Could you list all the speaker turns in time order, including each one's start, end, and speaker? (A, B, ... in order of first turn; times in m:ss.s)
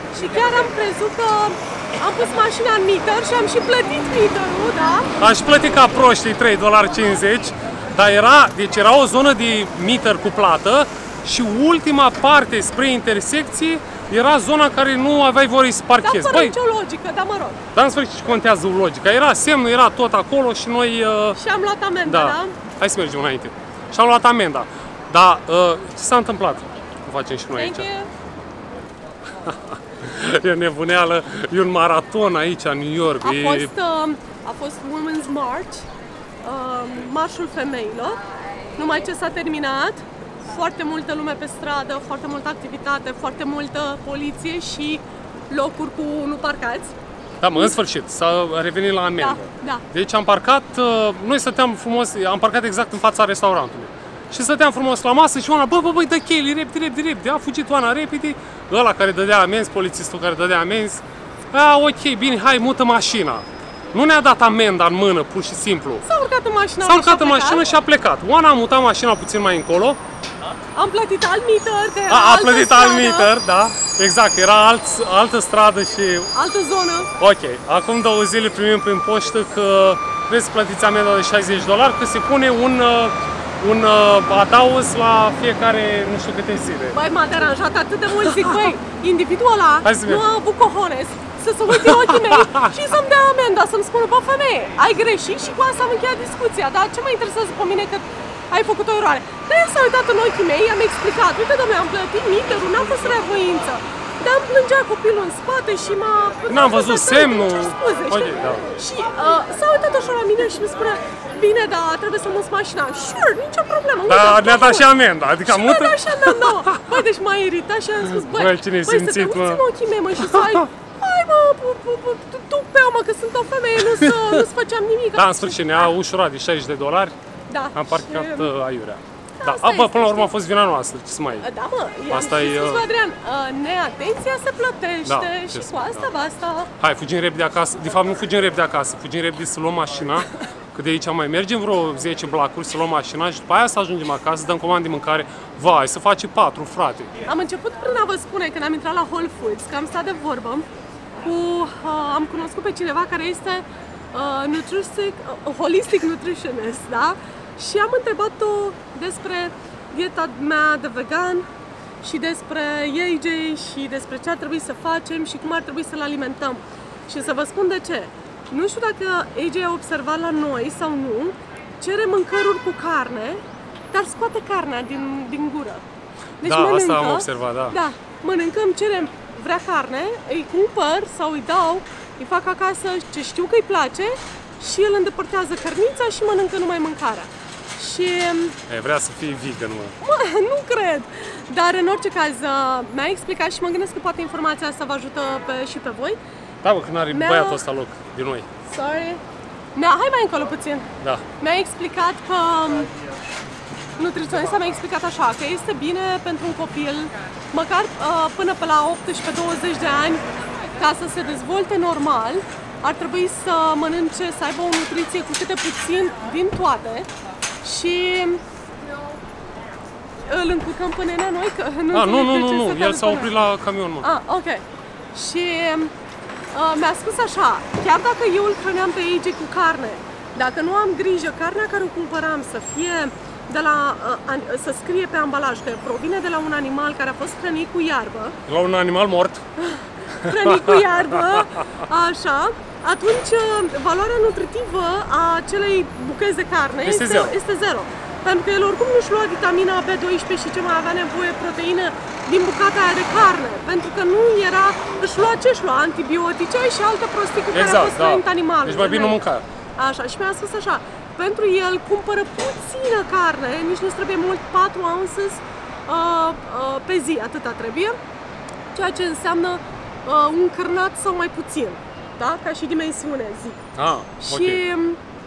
0:00.1-0:05.1 A
0:05.2-0:16.6 B
0:16.0-0:17.6 A
0:17.7-0:21.4 B
0:21.4-0:22.6 A
0:22.1-0:27.9 B
0:27.6-0:28.1 A
0:29.4-0:33.7 B
0:33.2-0:35.9 A
0:36.4-0:38.2 A
0:38.8-0:46.9 A
0:47.4-1:06.0 B
0:49.2-0:49.8 A
1:06.0-1:07.6 A
1:06.8-1:10.0 B
1:10.8-1:13.3 A
1:12.1-1:16.3 B
1:16.3-1:17.1 A
1:17.2-1:27.0 B
1:26.9-1:54.9 A
1:28.2-1:28.7 B
1:29.8-1:30.2 B
1:31.7-1:32.7 B
1:46.5-1:48.7 B
1:54.1-1:57.0 B
1:55.4-2:05.9 A
1:58.0-1:59.6 B
2:00.3-2:00.7 B
2:03.8-2:04.4 B
2:05.2-2:07.2 B
2:07.5-2:08.5 A
2:07.7-2:11.5 B
2:09.4-2:10.3 A
2:11.4-2:16.7 A
2:12.1-2:12.8 B
2:15.1-2:16.1 B
2:16.8-2:27.1 B
2:27.3-2:30.7 A
2:31.2-2:41.5 A
2:42.0-2:55.8 A
2:56.4-2:57.8 B
2:56.4-3:08.6 A
3:08.7-3:10.0 B
3:10.0-3:16.2 A
3:16.6-3:18.5 B
3:17.1-3:17.6 A
3:18.6-3:19.2 A
3:19.8-3:22.9 A
3:21.0-3:21.3 B
3:24.0-3:37.1 A
3:37.6-3:38.4 A
3:40.2-3:43.4 A
3:41.9-3:44.1 B
3:44.0-3:45.9 A
3:46.5-3:58.4 A
3:58.5-3:59.4 B
3:59.6-4:19.2 A
4:00.2-4:01.8 B
4:06.8-4:07.4 B
4:17.5-4:19.4 B
4:19.8-4:28.0 A
4:28.7-4:33.6 A
4:33.8-4:34.6 B
4:34.2-4:35.0 A